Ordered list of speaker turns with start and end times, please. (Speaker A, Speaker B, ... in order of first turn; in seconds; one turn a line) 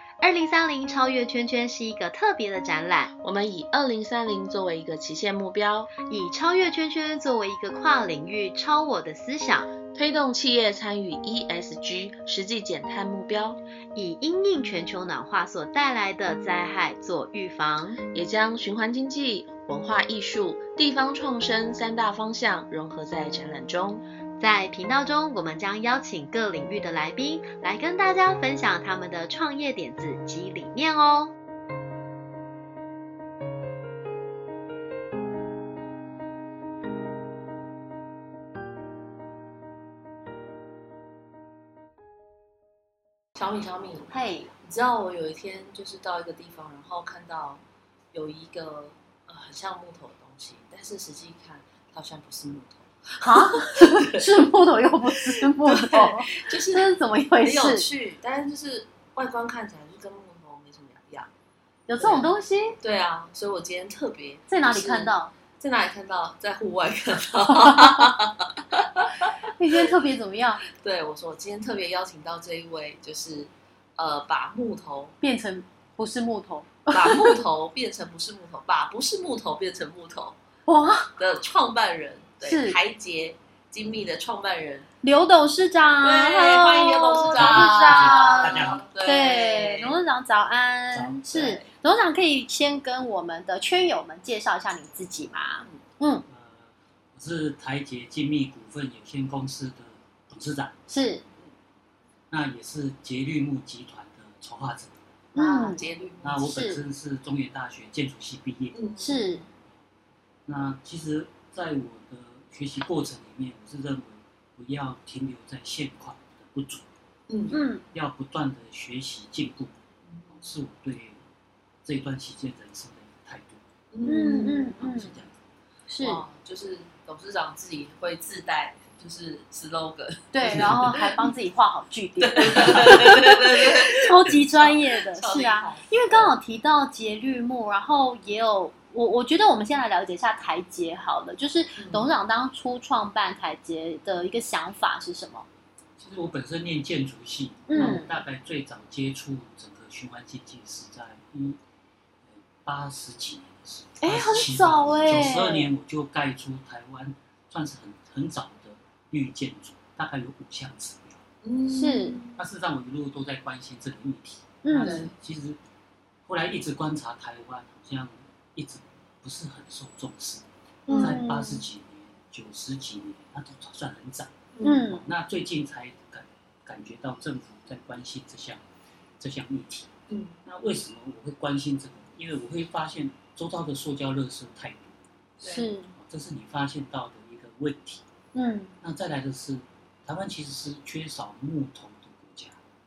Speaker A: 0.2-3.1
Speaker B: 3.2-5.9
Speaker A: 6.0-9.7
Speaker B: 9.9-13.6
Speaker A: 13.9-18.0
Speaker B: 17.9-24.0
Speaker A: 24.4-31.3
Speaker C: 43.4-44.1
Speaker D: 44.1-44.5
Speaker C: 44.6-47.6
Speaker C: 48.1-54.5
Speaker D: 53.2-57.9
Speaker C: 55.1-61.3
Speaker D: 61.9-62.8
Speaker C: 62.0-62.3
Speaker C: 62.8-69.3
Speaker D: 64.5-65.3
Speaker D: 67.6-68.1
Speaker D: 69.6-70.6
Speaker C: 70.7-75.2
Speaker D: 75.2-77.4
Speaker C: 76.9-80.4
Speaker D: 80.7-81.1
Speaker C: 81.1-84.9
Speaker D: 82.4-82.8
Speaker D: 85.0-96.2
Speaker C: 86.0-90.0
Speaker E: 87.2-88.8
Speaker E: 90.9-91.2
Speaker C: 91.3-91.7
Speaker E: 96.3-100.8
Speaker D: 100.9-101.2
Speaker E: 102.3-105.0
Speaker D: 105.3-105.8
Speaker C: 105.3-106.5
Speaker E: 106.2-108.8
Speaker D: 106.4-106.8
Speaker C: 108.7-109.4
Speaker D: 109.0-109.4
Speaker E: 110.5-116.8
Speaker C: 117.3-117.6
Speaker D: 117.5-117.8
Speaker E: 117.9-119.7
Speaker C: 120.0-120.4
Speaker E: 120.3-121.2
Speaker E: 121.8-123.6
Speaker C: 123.9-124.8
Speaker D: 124.0-125.2
Speaker E: 124.8-125.3
Speaker D: 125.9-126.2
Speaker C: 126.0-131.3
Speaker D: 130.3-145.4
Speaker E: 130.4-130.9
Speaker C: 132.2-136.3
Speaker C: 141.8-142.1
Speaker E: 146.0-151.6
Speaker D: 147.7-148.2
Speaker E: 152.2-161.2
Speaker D: 154.0-155.7
Speaker C: 161.4-162.4
Speaker D: 161.7-162.2
Speaker E: 162.3-165.6
Speaker D: 164.6-165.1
Speaker C: 164.7-165.1
Speaker E: 166.2-178.6
Speaker C: 170.9-171.2
Speaker D: 170.9-171.6
Speaker C: 174.5-174.8
Speaker D: 174.6-175.0
Speaker E: 179.2-179.9
Speaker C: 180.1-180.3
Speaker E: 180.4-185.0
Speaker C: 185.4-185.7
Speaker D: 185.4-185.9
Speaker E: 185.9-188.0
Speaker D: 188.3-188.7
Speaker E: 188.8-192.6